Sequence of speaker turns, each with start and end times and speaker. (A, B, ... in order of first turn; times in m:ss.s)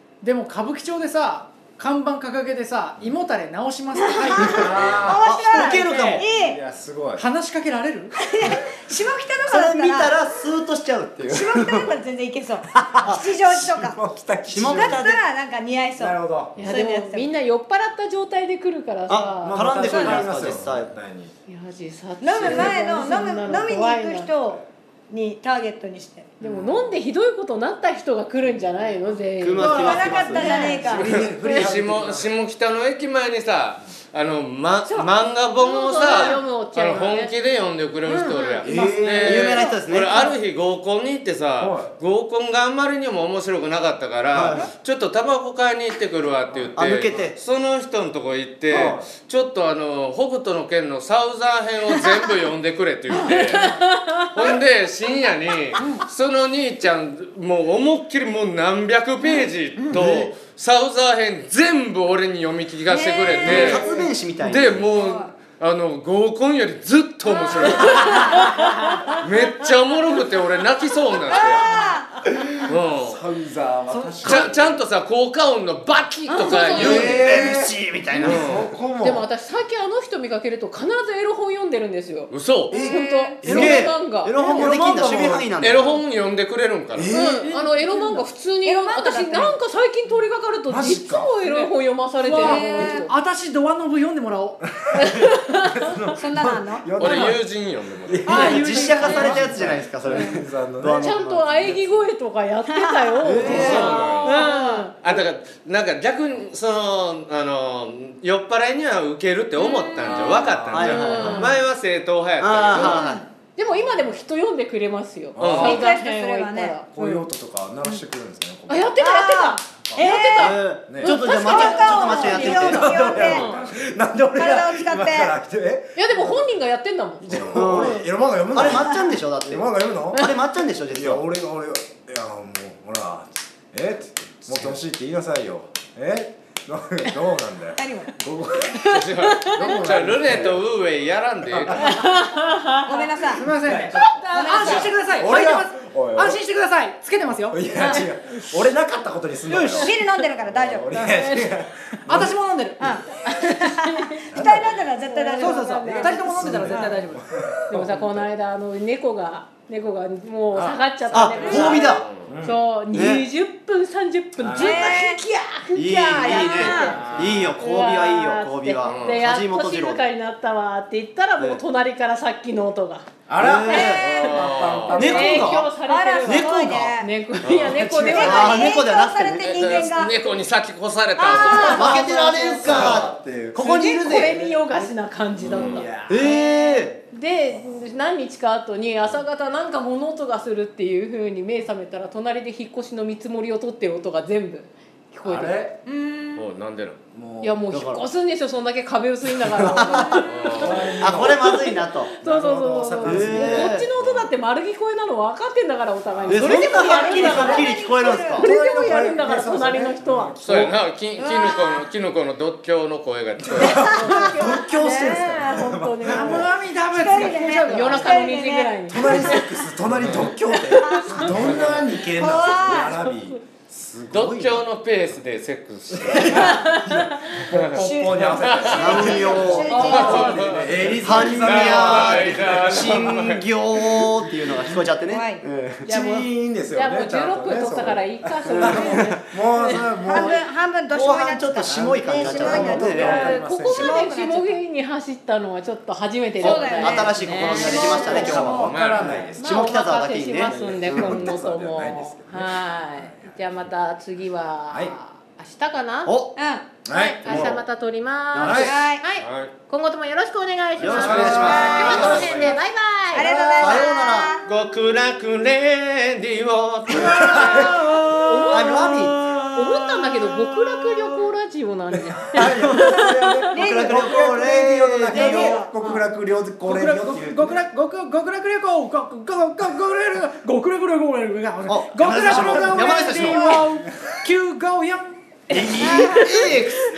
0:00.2-0:06.2 A
0:03.9-0:06.6 B
0:04.4-0:05.2 C
0:04.4-0:06.2 D
0:06.3-0:07.2 C
0:07.2-0:08.2 A
0:08.1-0:10.3 B
0:09.5-0:12.0 D
0:11.2-0:14.0 B
0:12.7-0:15.1 C
0:13.0-0:13.3 D
0:14.5-0:15.2 D
0:14.6-0:17.3 B
0:16.0-0:16.7 C
0:16.6-0:20.4 E
0:19.1-0:20.9 D
0:19.4-0:21.3 C
0:21.5-0:24.4 E
0:22.2-0:26.3 B
0:22.4-0:22.8 C
0:26.4-0:31.7 E
0:26.4-0:26.8 D
0:29.4-0:30.8 D
0:29.6-0:32.3 C
0:29.6-0:31.2 B
0:30.9-1:03.9 F
0:35.6-0:37.3 E
0:36.1-0:36.4 B
0:38.0-0:38.6 E
0:38.6-0:39.5 C
0:38.7-0:40.3 D
0:39.5-0:40.3 B
0:41.6-0:41.9 C
0:44.3-0:44.7 D
0:46.5-0:47.3 C
0:46.8-0:47.4 D
0:48.7-0:49.0 D
0:48.7-0:49.1 C
0:53.2-0:54.6 E
0:59.9-1:00.3 D
1:02.9-1:04.2 B
1:03.3-1:04.9 D
1:04.4-1:08.2 F
1:04.8-1:05.3 B
1:07.5-1:08.6 B
1:07.6-1:09.2 E
1:09.2-1:11.9 F
1:11.3-1:12.3 B
1:12.4-1:14.8 C
1:12.7-1:13.2 F
1:13.9-1:14.5 B
1:14.2-1:17.3 F
1:16.3-1:16.7 B
1:16.4-1:17.2 E
1:16.6-1:18.5 D
1:16.8-1:19.3 C
1:18.1-1:18.7 F
1:19.0-1:24.4 E
1:22.3-1:22.8 F
1:22.7-1:23.4 B
1:22.8-1:23.8 C
1:23.4-1:26.0 D
1:24.4-1:25.5 C
1:24.4-1:24.7 B
1:24.7-1:25.0 F
1:25.6-1:27.1 F
1:27.0-1:27.5 C
1:27.1-1:33.1 E
1:27.3-1:28.3 A
1:28.6-1:29.6 B
1:30.7-1:31.3 C
1:31.4-1:34.6 A
1:32.4-1:33.1 B
1:34.8-1:37.5 C
1:35.0-1:35.9 E
1:36.2-1:37.0 B
1:37.0-1:38.4 F
1:38.0-1:41.2 C
1:38.3-1:39.6 A
1:38.3-1:41.8 D
1:39.1-1:39.4 B
1:39.5-1:39.8 F
1:41.0-1:45.0 E
1:42.7-1:44.9 B
1:43.2-1:44.1 D
1:43.4-1:44.2 C
1:43.4-1:44.5 F
1:45.0-1:53.1 F
1:49.6-1:50.2 B
1:50.0-1:51.4 C
1:50.2-1:51.6 D
1:50.8-1:51.6 E
1:52.4-1:53.2 D
1:52.9-1:53.2 B
1:53.6-1:57.2 E
1:55.4-1:55.9 C
1:55.4-1:55.8 F
1:55.6-1:57.1 B
1:56.9-1:59.0 C
1:58.7-2:03.6 E
1:59.0-2:00.6 B
1:59.9-2:00.2 C
2:00.4-2:03.5 D
2:00.9-2:06.5 C
2:01.1-2:03.4 B
2:04.3-2:05.4 B
2:06.0-2:08.0 E
2:07.3-2:10.3 C
2:07.3-2:07.6 F
2:07.5-2:08.0 D
2:08.5-2:11.2 D
2:10.9-2:20.6 C
2:14.5-2:14.8 F
2:17.8-2:18.1 B
2:18.8-2:19.8 E
2:18.9-2:22.0 F
2:21.5-2:22.0 C
2:21.7-2:23.1 E
2:22.8-2:23.5 B
2:23.3-2:28.0 A
2:23.6-2:26.4 C
2:24.3-2:25.0 B
2:27.4-2:32.4 C
2:27.8-2:28.1 E
2:29.5-2:29.9 A
2:29.8-2:31.1 B
2:31.0-2:31.5 E
2:32.1-2:33.6 A
2:32.8-2:33.1 B
2:33.2-2:34.3 E
2:33.6-2:36.1 B
2:34.3-2:34.8 C
2:35.0-2:36.7 E
2:35.4-2:37.2 A
2:35.6-2:38.3 C
2:36.7-2:37.1 B
2:37.7-2:47.0 E
2:40.5-2:42.6 C
2:41.1-2:42.0 D
2:41.4-2:41.9 B
2:41.8-2:42.2 F
2:42.9-2:43.2 D
2:44.4-2:44.9 C
2:44.5-2:45.2 B
2:45.8-2:50.0 D
2:46.2-2:47.0 B
2:46.6-2:47.5 C
2:47.1-2:47.4 F
2:47.6-2:53.1 E
2:48.8-2:49.2 F
2:53.3-2:55.6 C
2:53.4-2:54.2 D
2:53.7-2:54.2 E
2:54.0-2:55.0 F
2:54.9-2:58.8 E
2:54.9-2:55.7 D
2:55.8-2:57.2 B
2:56.2-2:59.9 D
2:57.4-2:57.9 F
2:58.0-3:00.2 B
2:59.3-3:01.9 F
3:01.2-3:03.0 E
3:01.6-3:04.4 D
3:01.6-3:06.3 C
3:02.7-3:03.0 F
3:03.6-3:15.6 E
3:05.4-3:05.9 F
3:06.1-3:07.0 D
3:15.2-3:15.8 C
3:15.9-3:16.4 B
3:16.3-3:17.0 F
3:17.1-3:17.6 C
3:17.4-3:27.7 E
3:17.7-3:18.0 D
3:19.4-3:21.6 C
3:19.6-3:20.2 D
3:20.3-3:20.8 F
3:21.0-3:22.1 D
3:22.2-3:23.8 C
3:23.0-3:23.9 D
3:24.0-3:24.3 F
3:26.2-3:26.7 C
3:26.3-3:28.5 D
3:26.5-3:28.4 B
3:27.2-3:27.6 C
3:28.3-3:30.4 E
3:28.4-3:30.8 C
3:30.4-3:33.8 F
3:31.2-3:31.8 B
3:33.4-3:36.5 C
3:33.7-3:36.5 E
3:33.7-3:34.2 B
3:36.0-3:38.4 A
3:36.9-3:39.7 B
3:37.6-3:39.3 E
3:38.9-3:44.7 C
3:39.9-3:40.3 F
3:40.7-3:42.9 B
3:40.9-3:41.6 E
3:41.4-3:41.8 F
3:42.8-3:43.1 E
3:44.1-3:46.5 F
3:45.9-3:53.3 C
3:46.1-3:47.4 E
3:47.5-3:47.8 F
3:47.7-3:50.6 B
3:48.4-3:50.9 F
3:48.7-3:50.2 D
3:49.6-3:50.6 E
3:51.0-3:56.3 D
3:51.4-3:53.4 F
3:55.0-3:55.5 B
3:55.8-4:00.3 E
3:56.0-4:00.4 C
3:58.5-3:59.2 D
4:00.0-4:04.6 B
4:00.9-4:03.3 D
4:01.6-4:04.1 C
4:02.7-4:08.4 E
4:06.4-4:11.5 D
4:06.4-4:09.2 B
4:07.6-4:09.7 C
4:08.3-4:09.2 F
4:09.4-4:16.1 E
4:10.4-4:13.7 C
4:16.0-4:16.4 D
4:16.4-4:16.7 B
4:16.8-4:17.6 C
4:16.9-4:23.8 E
4:17.2-4:17.6 D
4:18.3-4:18.8 D
4:18.4-4:18.8 C
4:18.6-4:19.0 B
4:19.2-4:19.5 F
4:20.8-4:22.5 D
4:20.8-4:22.6 C
4:21.0-4:21.5 F
4:21.4-4:22.2 B
4:23.1-4:24.4 B
4:23.2-4:24.3 D
4:24.4-4:31.1 F
4:27.0-4:27.7 C
4:27.2-4:27.6 E
4:28.2-4:33.4 E
4:28.5-4:29.2 D
4:32.3-4:37.6 C
4:32.4-4:33.0 D
4:33.5-4:35.6 D
4:33.5-4:36.0 B
4:36.6-4:45.7 A
4:41.7-4:43.6 D
4:42.3-4:43.9 C
4:45.5-4:46.6 E
4:45.5-4:46.8 D
4:45.8-4:46.3 B